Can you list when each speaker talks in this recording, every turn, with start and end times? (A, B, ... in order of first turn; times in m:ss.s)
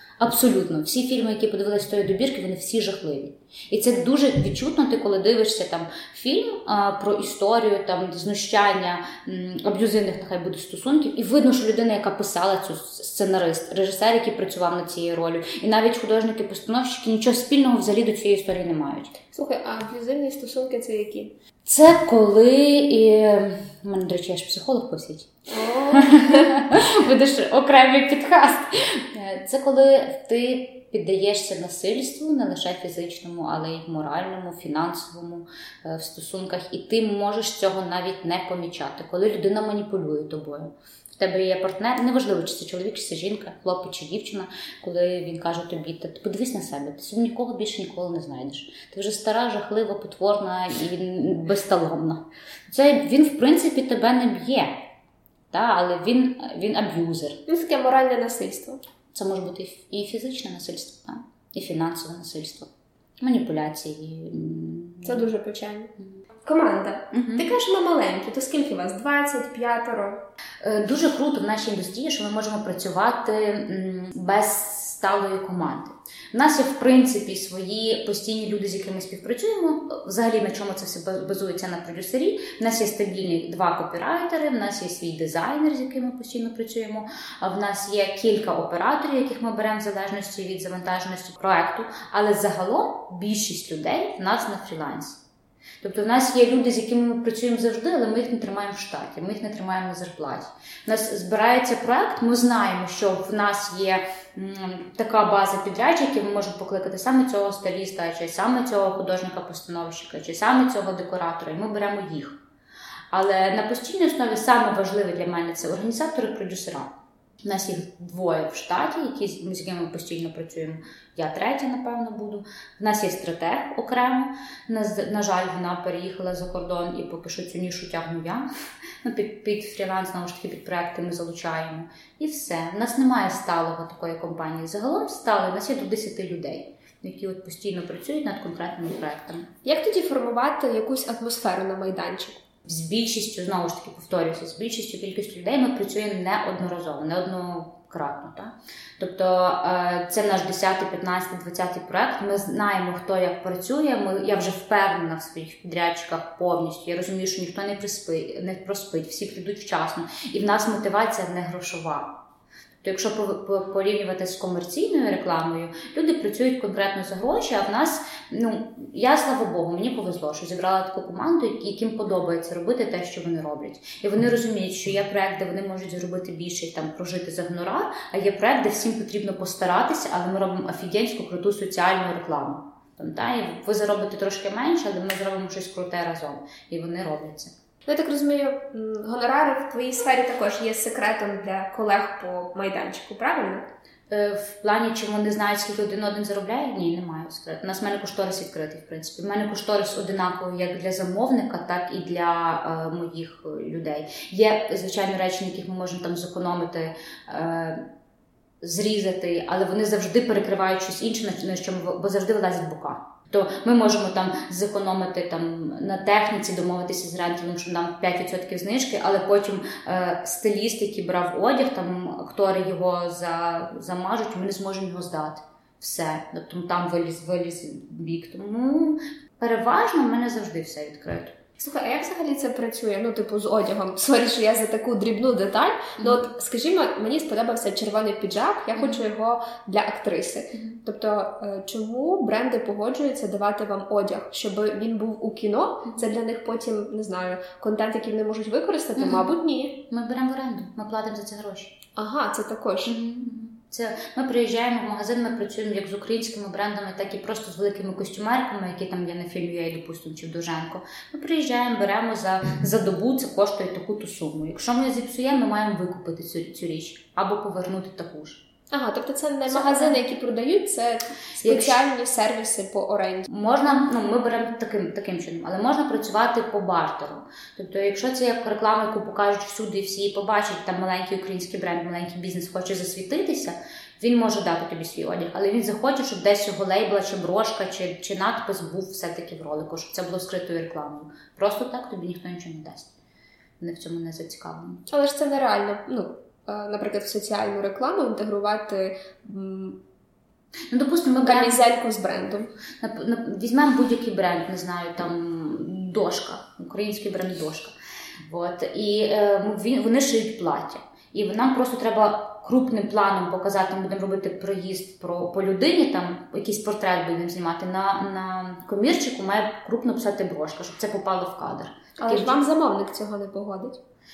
0:00.2-0:19.2 A
0:19.3-0:21.4 B
0:21.6-0:25.3 A
0:25.5-0:26.6 B
0:25.9-0:54.8 A
0:55.5-0:57.4 A
0:57.5-0:58.8 B
0:59.1-1:02.7 A
1:03.2-1:05.2 A
1:05.0-1:05.9 B
1:06.4-1:10.2 B
1:07.1-1:07.5 A
1:10.6-1:35.2 A
1:35.8-1:52.4 A
1:53.1-1:56.9 A
1:57.4-2:08.5 A
2:09.0-2:19.5 A
2:19.6-2:22.4 B
2:22.6-2:42.2 A
2:42.8-3:07.5 A
3:07.8-3:13.7 B
3:14.1-3:27.9 A
3:28.6-3:51.4 A
3:51.6-4:09.8 B
3:56.0-3:56.2 A
4:09.0-4:09.2 A
4:09.9-4:11.8 A
4:12.0-4:12.9 B
4:12.8-4:28.5 A
4:28.7-4:33.3 B
4:29.5-4:30.0 A
4:31.4-4:31.8 A
4:33.3-4:52.9 A
4:53.6-4:54.8 A
4:54.9-4:59.8 B
5:00.7-5:01.6 A
5:01.2-5:02.5 B
5:02.8-5:07.7 A
5:08.3-5:22.4 A
5:22.0-5:23.8 B